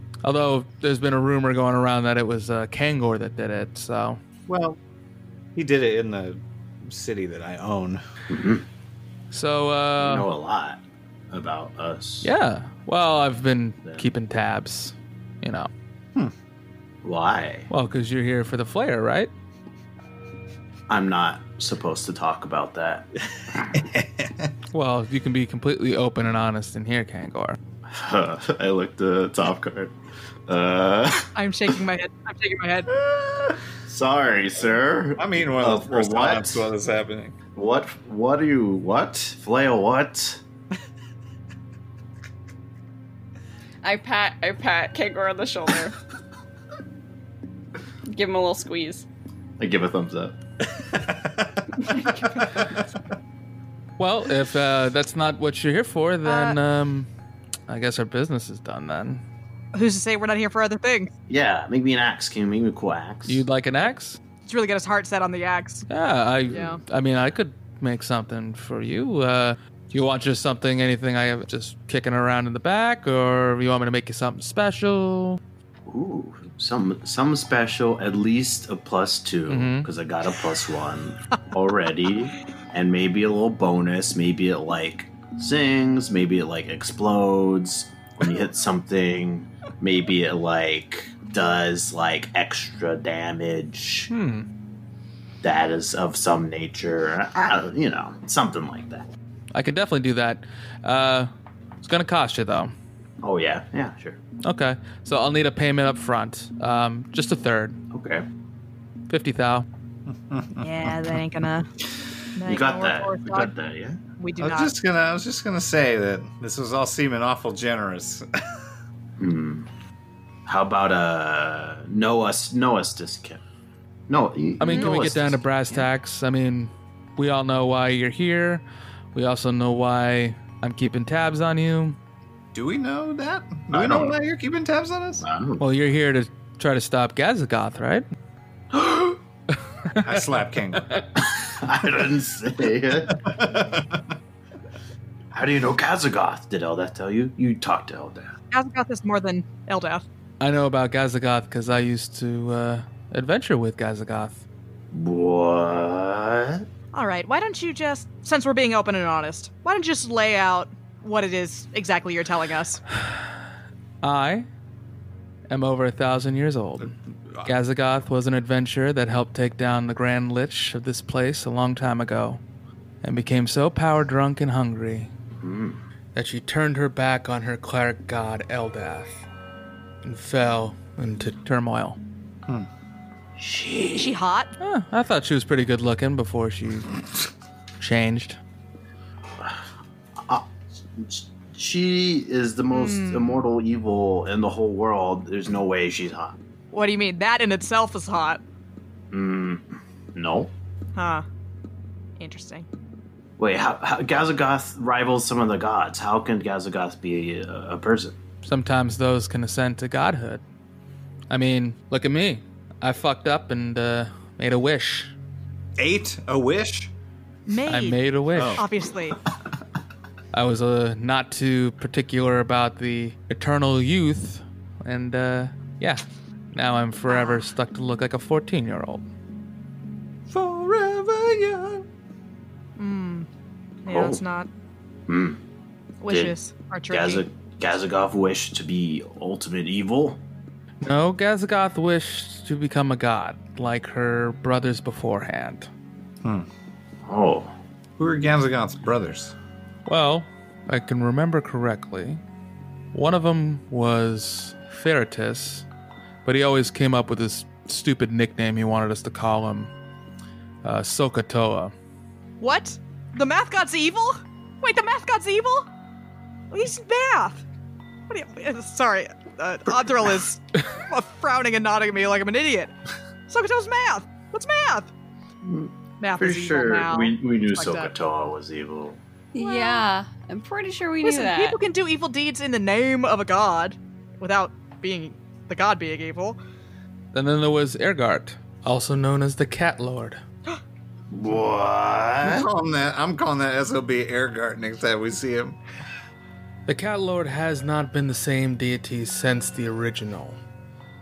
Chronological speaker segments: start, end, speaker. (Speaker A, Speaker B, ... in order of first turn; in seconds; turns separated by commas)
Speaker A: 0.2-4.2, Speaker B: 4.5-4.8, Speaker B: 5.5-8.0, Speaker C: 8.3-8.6, Speaker A: 9.3-10.3, Speaker C: 10.0-12.3, Speaker A: 12.2-15.7, Speaker C: 17.0-17.7, Speaker A: 17.7-19.3, Speaker C: 20.9-23.1, Speaker B: 23.7-24.5, Speaker A: 24.7-27.6, Speaker C: 27.9-29.9, Speaker C: 30.5-31.3, Speaker D: 31.4-32.9, Speaker B: 33.0-33.6, Speaker C: 33.9-36.6, Speaker B: 35.1-37.4, Speaker C: 37.5-40.4, Speaker E: 43.8-46.0, Speaker E: 48.1-49.1, Speaker C: 49.6-50.4, Speaker B: 50.8-51.6, Speaker E: 51.9-52.5, Speaker A: 54.0-57.1, Speaker D: 56.2-56.6, Speaker A: 57.7-59.2, Speaker D: 59.7-61.1, Speaker C: 61.3-63.4, Speaker A: 63.3-64.2, Speaker D: 64.5-65.9, Speaker A: 65.9-75.4, Speaker D: 66.5-66.8, Speaker C: 75.9-94.1, Speaker A: 79.5-79.9, Speaker A: 94.1-94.5, Speaker C: 95.4-99.1, Speaker A: 99.5-101.3, Speaker A: 101.8-102.8, Speaker C: 103.2-104.2, Speaker A: 104.4-107.8, Speaker C: 107.9-108.2, Speaker A: 109.1-109.7, Speaker B: 110.1-111.1, Speaker D: 110.6-111.7, Speaker D: 112.4-113.5, Speaker C: 112.5-114.0, Speaker D: 114.2-114.7, Speaker B: 114.4-118.3, Speaker C: 119.2-119.7, Speaker C: 120.5-123.4, Speaker C: 124.1-125.8, Speaker A: 124.6-128.6, Speaker A: 129.1-132.0, Speaker B: 132.5-135.2, Speaker C: 133.7-134.2, Speaker C: 135.2-135.6, Speaker A: 135.6-138.1, Speaker A: 139.9-141.0, Speaker B: 140.0-140.9, Speaker C: 141.2-143.3, Speaker B: 143.2-144.0, Speaker C: 145.3-148.3, Speaker D: 148.5-150.1, Speaker A: 150.4-154.4, Speaker C: 154.9-156.7, Speaker D: 156.9-162.8, Speaker A: 164.0-164.5, Speaker A: 165.5-166.9, Speaker A: 167.4-172.4, Speaker A: 173.0-175.1, Speaker C: 175.4-175.8, Speaker A: 176.2-179.2, Speaker A: 180.0-182.0, Speaker C: 183.4-184.2, Speaker D: 183.9-184.5, Speaker A: 184.6-186.9, Speaker A: 187.8-188.4, Speaker C: 190.2-196.4, Speaker D: 192.7-193.4, Speaker D: 196.7-198.4, Speaker C: 199.1-200.5, Speaker D: 201.0-201.2, Speaker D: 202.2-202.7, Speaker C: 203.4-208.2, Speaker A: 208.4-210.4, Speaker A: 211.3-215.1, Speaker B: 215.8-216.9, Speaker D: 217.5-219.2, Speaker A: 217.7-218.6, Speaker B: 218.3-218.7, Speaker A: 220.3-226.0, Speaker A: 226.5-229.1, Speaker B: 230.3-231.8, Speaker D: 232.8-233.3, Speaker C: 233.9-234.2, Speaker D: 233.9-234.5, Speaker C: 235.1-235.4, Speaker D: 236.0-237.2, Speaker C: 236.1-236.3, Speaker C: 236.9-240.2, Speaker A: 240.8-245.7, Speaker C: 247.1-247.5, Speaker B: 248.0-249.3, Speaker A: 249.9-252.2, Speaker A: 252.9-255.7, Speaker A: 256.2-259.7, Speaker A: 260.6-261.7, Speaker D: 262.4-265.7, Speaker D: 266.5-267.4, Speaker D: 268.1-272.7, Speaker D: 273.3-274.9, Speaker C: 275.4-279.0, Speaker D: 276.0-277.9, Speaker E: 279.3-281.6, Speaker D: 279.4-279.9, Speaker D: 281.0-286.4, Speaker A: 287.1-290.2, Speaker C: 291.1-292.5, Speaker B: 292.2-295.6, Speaker A: 296.7-300.4